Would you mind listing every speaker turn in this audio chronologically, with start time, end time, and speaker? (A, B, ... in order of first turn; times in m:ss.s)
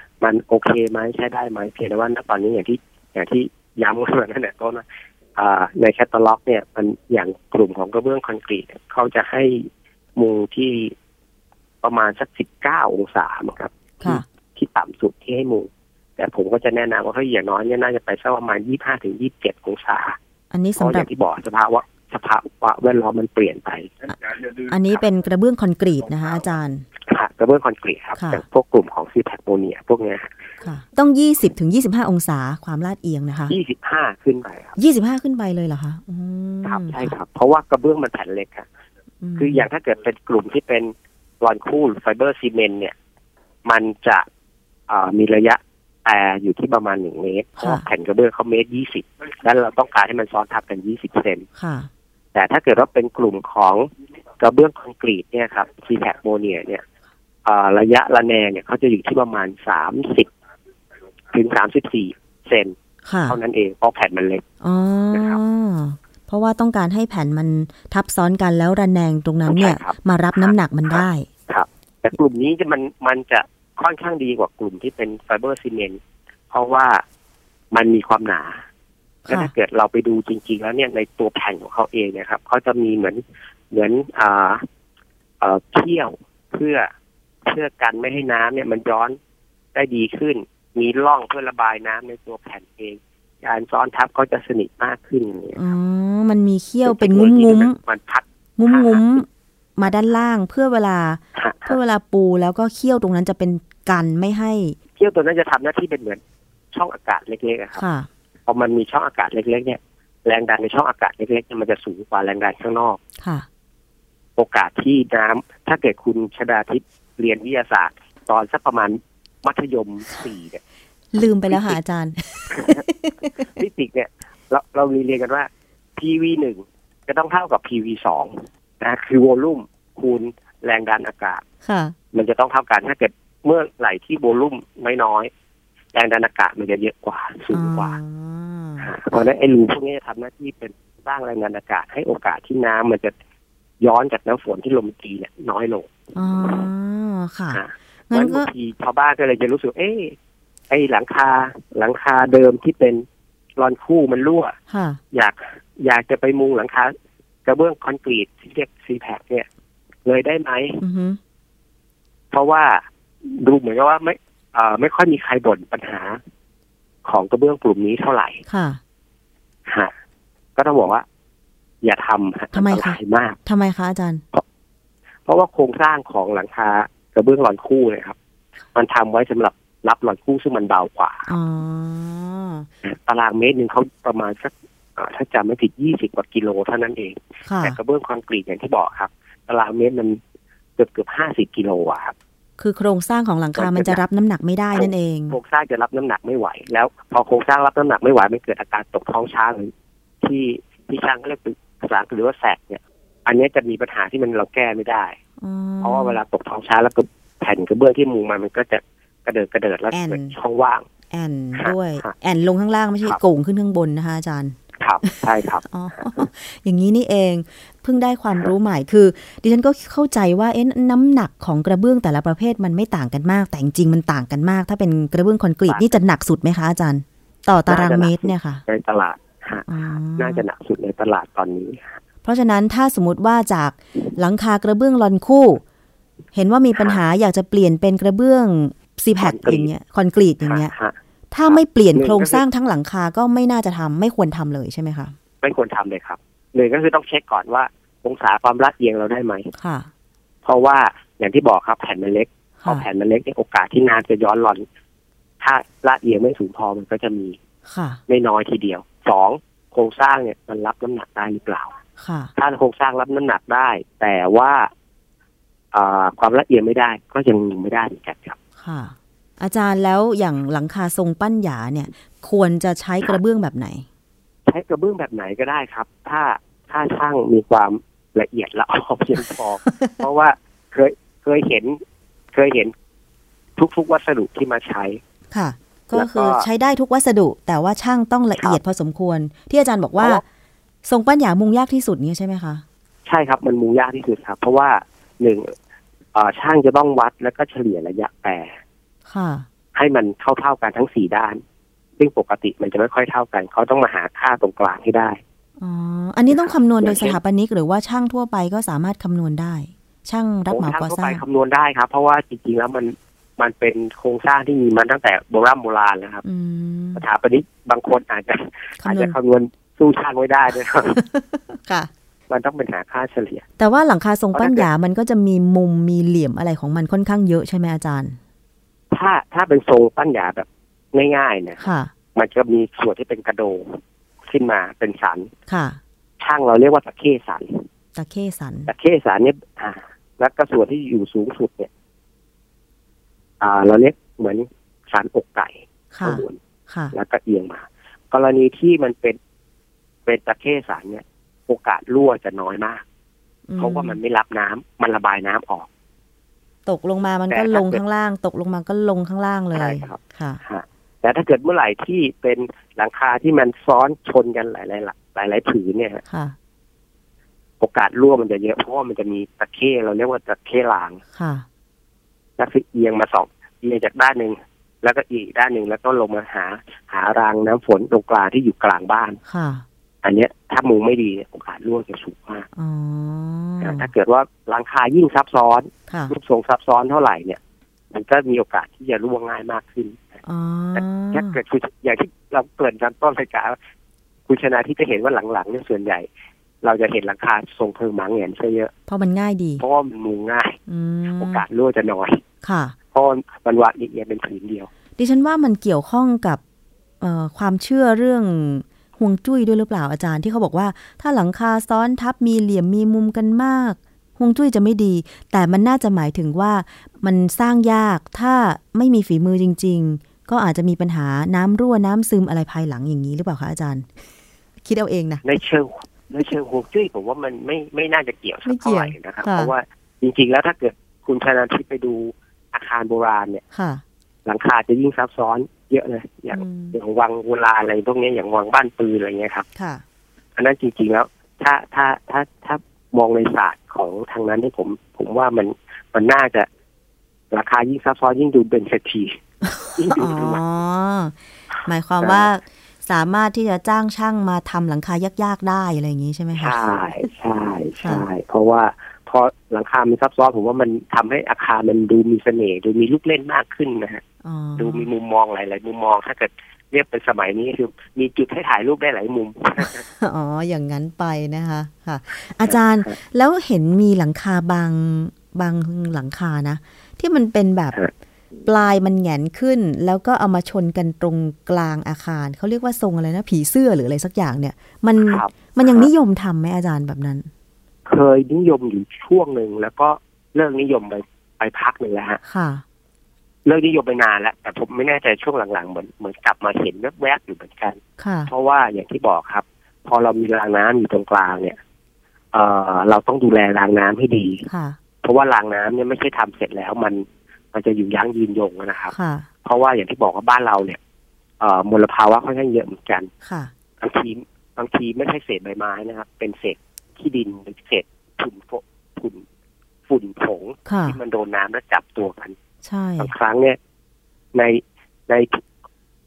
0:00.2-0:04.8 A
0:05.4-0:11.0 A
0:11.8-0:20.2 A
0:20.5-0:21.1 B
0:20.8-0:24.1 A
0:24.6-0:26.8 B
0:27.0-0:30.3 A
0:28.2-0:28.4 B
0:30.6-0:33.6 B
0:33.5-0:34.8 A
0:34.8-0:37.1 B
0:36.6-0:38.7 A
0:39.2-0:39.7 B
0:39.4-0:43.0 A
0:43.7-0:44.3 A
0:44.9-0:51.4 A
0:47.6-0:47.8 B
0:51.6-0:51.9 B
0:52.3-0:53.9 A
0:54.4-0:56.8 A
0:57.4-1:00.3 A
1:01.3-1:04.4 A
1:03.0-1:03.4 B
1:04.6-1:11.3 B
1:05.1-1:05.4 A
1:09.5-1:16.0 A
1:16.5-1:17.0 A
1:17.7-1:18.6 A
1:19.3-1:19.5 B
1:19.3-1:24.6 A
1:25.4-1:26.9 A
1:27.5-1:29.2 A
1:29.7-1:35.6 A
1:35.6-1:37.8 B
1:36.8-1:39.2 A
1:38.6-1:44.8 B
1:41.4-1:41.8 A
1:45.0-1:46.2 A
1:46.7-1:47.8 A
1:47.8-1:48.1 B
1:48.5-1:53.0 A
1:53.2-1:53.5 B
1:54.4-2:00.6 A
2:01.1-2:03.4 B
2:01.5-2:01.8 A
2:02.5-2:02.8 A
2:03.4-2:11.4 A
2:11.6-2:12.0 B
2:12.1-2:15.3 A
2:15.9-2:18.0 A
2:17.5-2:18.9 B
2:18.8-2:23.1 A
2:23.8-2:26.6 A
2:26.2-2:28.5 B
2:27.5-2:30.2 A
2:30.7-2:33.0 A
2:33.6-2:34.6 A
2:34.7-2:35.0 B
2:35.1-2:39.5 A
2:40.0-2:40.8 A
2:40.8-2:41.2 B
2:42.3-2:46.2 A
2:47.0-2:48.4 A
2:48.5-2:48.8 B
2:49.7-2:49.9 A
2:50.6-2:51.0 A
2:51.8-2:53.4 A
2:52.5-2:54.2 B
2:55.3-2:58.2 A
2:58.8-3:01.3 A
3:01.3-3:02.7 B
3:02.8-3:10.2 A
3:07.4-3:07.8 B
3:10.8-3:12.2 A
3:12.6-3:15.4 B
3:13.6-3:14.0 A
3:14.8-3:25.2 A
3:25.4-3:26.2 B
3:25.8-3:30.8 A
3:29.9-3:30.3 B
3:31.1-3:48.6 B
3:31.6-3:32.1 A
3:34.8-3:36.2 A
3:45.7-3:46.0 A
3:47.7-3:52.0 A
3:49.7-3:50.4 B
3:52.2-3:55.6 B
3:56.3-4:00.7 B
3:59.2-3:59.7 A
4:00.4-4:01.0 A
4:01.3-4:05.2 B
4:01.5-4:02.4 A
4:05.4-4:09.5 A
4:09.6-4:09.9 B
4:10.4-4:14.6 A
4:12.6-4:12.9 B
4:15.4-4:17.4 A
4:17.7-4:18.0 B
4:18.1-4:21.7 A
4:22.0-4:22.3 B
4:22.4-4:24.7 A
4:25.7-4:28.4 A
4:28.6-4:33.9 B
4:34.5-4:41.8 A
4:42.3-4:42.7 A
4:43.6-4:45.0 A
4:45.3-4:50.2 B
4:45.9-4:46.5 A
4:50.0-4:50.2 A
4:50.8-4:52.6 B
4:53.1-4:55.5 A
4:56.2-4:58.6 A
4:59.1-4:59.5 B
4:59.8-5:01.4 A
5:02.0-5:05.2 A
5:05.6-5:11.2 B
5:06.3-5:07.2 A
5:10.5-5:16.2 A
5:16.2-5:17.0 B
5:17.0-5:21.0 A
5:18.8-5:19.2 B
5:20.9-5:21.9 B
5:22.3-5:23.4 A
5:23.6-5:28.2 B
5:24.3-5:24.7 A
5:28.9-5:35.3 A
5:31.6-5:31.9 B
5:35.5-5:35.8 B
5:36.2-5:37.7 A
5:38.0-5:38.7 B
5:38.7-5:41.7 A
5:43.4-5:46.4 A
5:45.9-5:47.0 B
5:46.9-5:49.2 A
5:50.1-5:52.8 A
5:53.5-5:54.0 B
5:53.6-5:55.7 A
5:56.7-6:00.4 B
5:57.3-5:57.8 A
5:59.5-6:06.0 A
6:06.1-6:06.4 B
6:07.6-6:11.0 A
6:11.1-6:11.5 B
6:12.4-6:19.2 A
6:19.3-6:19.6 B
6:20.0-6:22.5 A
6:22.6-6:23.9 B
6:23.6-6:27.4 A
6:25.9-6:26.1 B
6:27.9-6:30.2 A
6:30.2-6:31.4 B
6:30.7-6:33.6 A
6:34.3-6:36.1 A
6:36.6-6:38.7 A
6:38.9-6:39.6 B
6:39.6-6:40.6 A
6:40.7-6:41.4 B
6:41.1-6:42.2 A
6:42.4-6:42.8 B
6:42.9-6:44.7 A
6:45.0-6:46.4 B
6:47.0-7:03.9 B
7:04.6-7:05.2 B
7:05.2-7:13.4 A
7:08.4-7:09.5 B
7:13.5-7:13.8 B
7:14.2-7:19.5 A
7:16.3-7:16.8 B
7:19.6-7:19.8 B
7:20.4-7:26.5 A
7:27.3-7:29.2 A
7:29.4-7:36.6 B
7:29.7-7:30.4 A
7:32.0-7:32.3 A
7:36.4-7:44.0 A
7:44.2-7:44.9 B
7:44.6-7:49.8 A
7:49.6-7:57.8 B
7:52.4-7:53.0 A
7:58.5-8:07.3 B
8:05.0-8:05.9 A
8:07.9-8:12.2 A
8:12.2-8:12.6 B
8:13.4-8:21.6 A
8:18.0-8:18.3 B
8:22.3-8:24.5 A
8:24.4-8:24.8 B
8:25.0-8:30.8 A
8:28.9-8:29.3 B
8:31.4-8:33.1 A
8:33.2-8:33.5 B
8:33.8-8:39.2 A
8:39.9-8:42.4 A
8:40.7-8:41.0 B
8:42.6-8:43.2 B
8:43.0-8:43.6 A
8:44.3-8:45.4 A